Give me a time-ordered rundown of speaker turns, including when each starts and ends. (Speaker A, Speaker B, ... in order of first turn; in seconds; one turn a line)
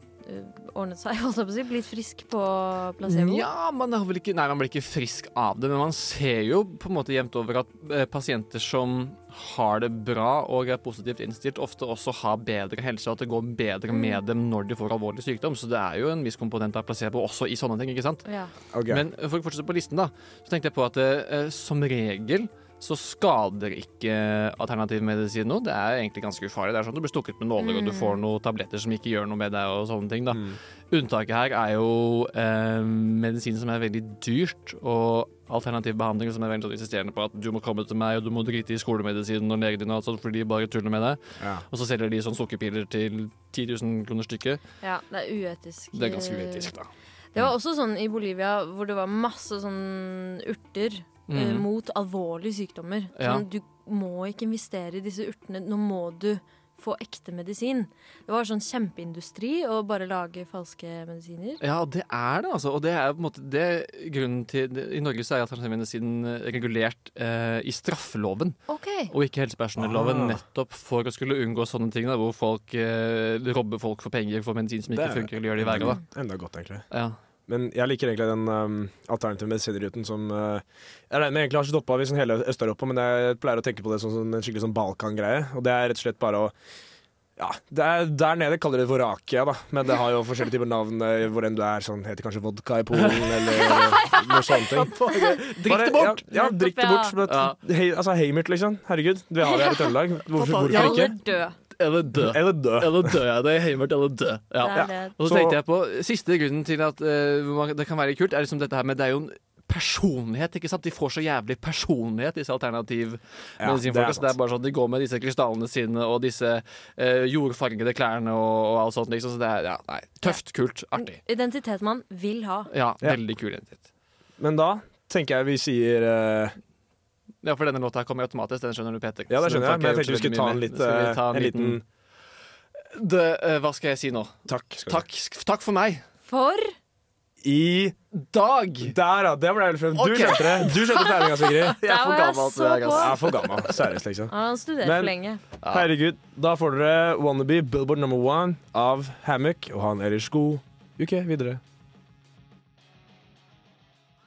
Speaker A: 0.2-3.5
Speaker B: 3.0-18.2
Speaker A: 13.9-14.2
Speaker A: 18.2-18.5
Speaker C: 18.7-19.0
Speaker B: 18.9-44.6
Speaker A: 27.6-28.2
Speaker C: 30.3-30.6
Speaker C: 41.4-41.6
Speaker A: 44.8-46.7
Speaker B: 45.9-46.9
Speaker A: 47.3-61.6
Speaker B: 51.3-51.7
Speaker B: 53.2-53.5
Speaker B: 61.6-68.6
Speaker A: 68.7-69.1
Speaker B: 69.1-76.0
Speaker C: 69.8-70.4
Speaker C: 74.9-76.8
Speaker B: 76.9-77.2
Speaker C: 77.5-86.5
Speaker C: 87.4-94.9
Speaker B: 92.9-93.8
Speaker A: 93.5-95.4
Speaker B: 94.6-96.2
Speaker C: 95.6-101.1
Speaker A: 96.3-97.2
Speaker B: 97.2-97.6
Speaker A: 99.4-99.9
Speaker B: 100.3-101.1
Speaker A: 100.7-101.5
Speaker B: 101.7-121.2
Speaker C: 102.1-103.2
Speaker A: 104.6-105.1
Speaker C: 104.7-105.6
Speaker C: 113.6-114.3
Speaker A: 121.0-122.7
Speaker B: 122.7-123.8
Speaker C: 124.4-126.5
Speaker B: 127.4-131.8
Speaker C: 129.3-131.8
Speaker B: 132.9-136.0
Speaker C: 134.5-135.0
Speaker A: 136.2-136.7
Speaker C: 137.4-137.9
Speaker B: 138.1-138.9
Speaker C: 138.8-141.8
Speaker B: 139.9-143.8
Speaker A: 141.8-143.6
Speaker C: 142.9-145.1
Speaker A: 144.3-145.4
Speaker B: 145.6-145.9
Speaker C: 145.7-151.6